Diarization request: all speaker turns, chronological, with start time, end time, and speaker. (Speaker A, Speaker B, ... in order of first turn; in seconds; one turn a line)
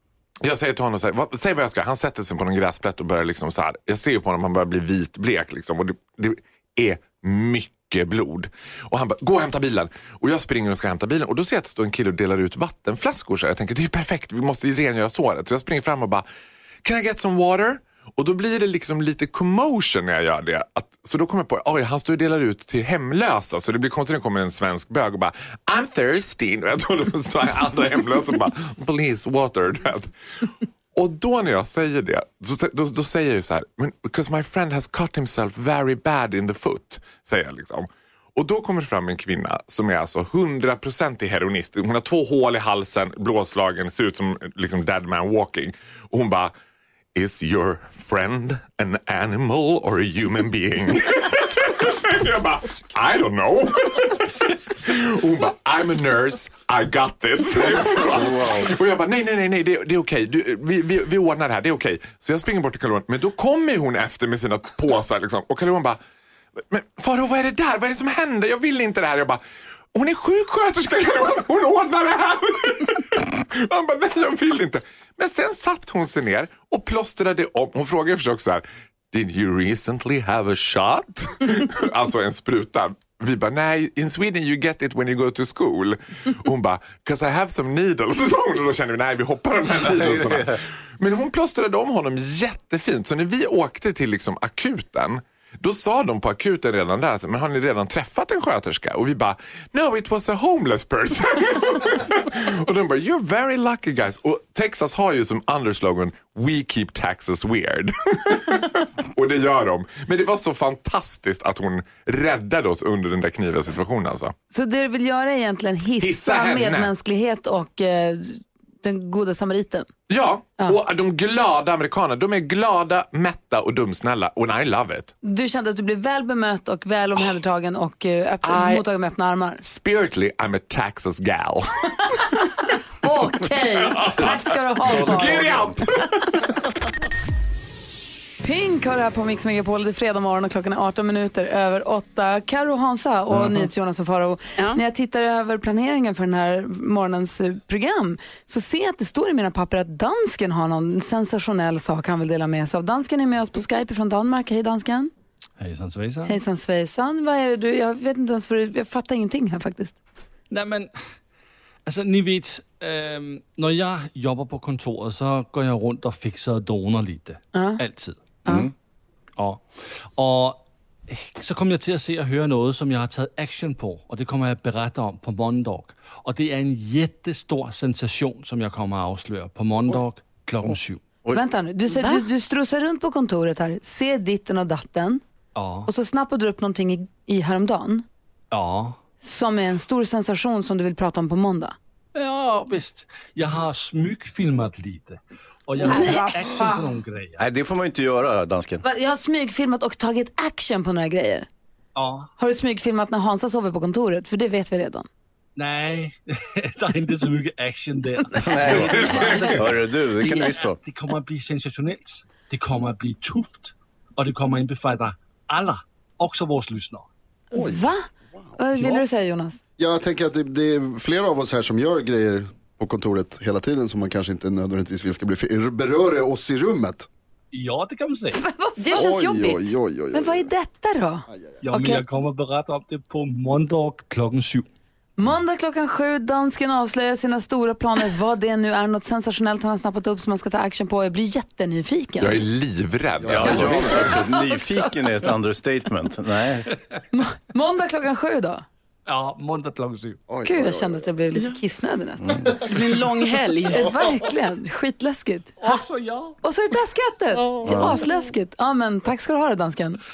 Speaker A: 0.4-16.3
Speaker A: 16.8-30.1
Speaker A: 30.9-46.5
Speaker A: 47.1-66.0
Speaker B: 58.1-58.7
Speaker A: 66.6-69.4
Speaker A: 69.9-114.3
Speaker B: 89.9-90.6
Speaker C: 114.5-119.9
Speaker A: 116.0-116.9
Speaker A: 120.1-125.1
Speaker C: 125.2-129.6
Speaker A: 128.4-128.8
Speaker A: 129.6-132.2
Speaker C: 133.0-135.5
Speaker A: 133.8-136.6
Speaker B: 134.8-135.8
Speaker C: 138.4-155.1
Speaker B: 143.3-143.7
Speaker D: 155.6-156.4
Speaker C: 156.3-160.0
Speaker D: 160.5-160.9
Speaker D: 161.9-168.4
Speaker C: 167.5-167.8
Speaker D: 169.4-181.0
Speaker B: 180.6-181.4
Speaker C: 181.3-185.2
Speaker E: 181.9-182.3
Speaker D: 185.6-185.9
Speaker C: 185.9-188.1
Speaker D: 188.5-189.0
Speaker C: 189.2-191.8
Speaker D: 192.2-197.4
Speaker C: 195.8-196.8
Speaker B: 197.4-198.8
Speaker C: 198.8-201.5
Speaker D: 202.0-202.3
Speaker C: 202.4-205.1
Speaker D: 205.6-217.1
Speaker B: 208.4-210.8
Speaker C: 208.7-209.6
Speaker C: 217.5-219.6
Speaker F: 217.5-218.6
Speaker D: 218.8-219.0
Speaker F: 219.8-227.1
Speaker D: 227.5-228.4
Speaker C: 228.3-229.1
Speaker E: 228.8-229.7
Speaker F: 228.9-230.5
Speaker C: 230.1-232.0
Speaker D: 231.6-234.7
Speaker C: 235.2-242.4
Speaker A: 242.2-244.0
Speaker F: 243.2-244.2
Speaker B: 243.2-246.7
Speaker C: 244.3-244.9
Speaker C: 247.1-248.7
Speaker D: 249.1-250.2
Speaker F: 250.3-251.1
Speaker C: 250.4-252.4
Speaker B: 252.2-252.6
Speaker E: 252.6-253.9
Speaker C: 253.7-255.8
Speaker D: 255.6-256.4
Speaker C: 256.4-260.0
Speaker B: 257.6-258.0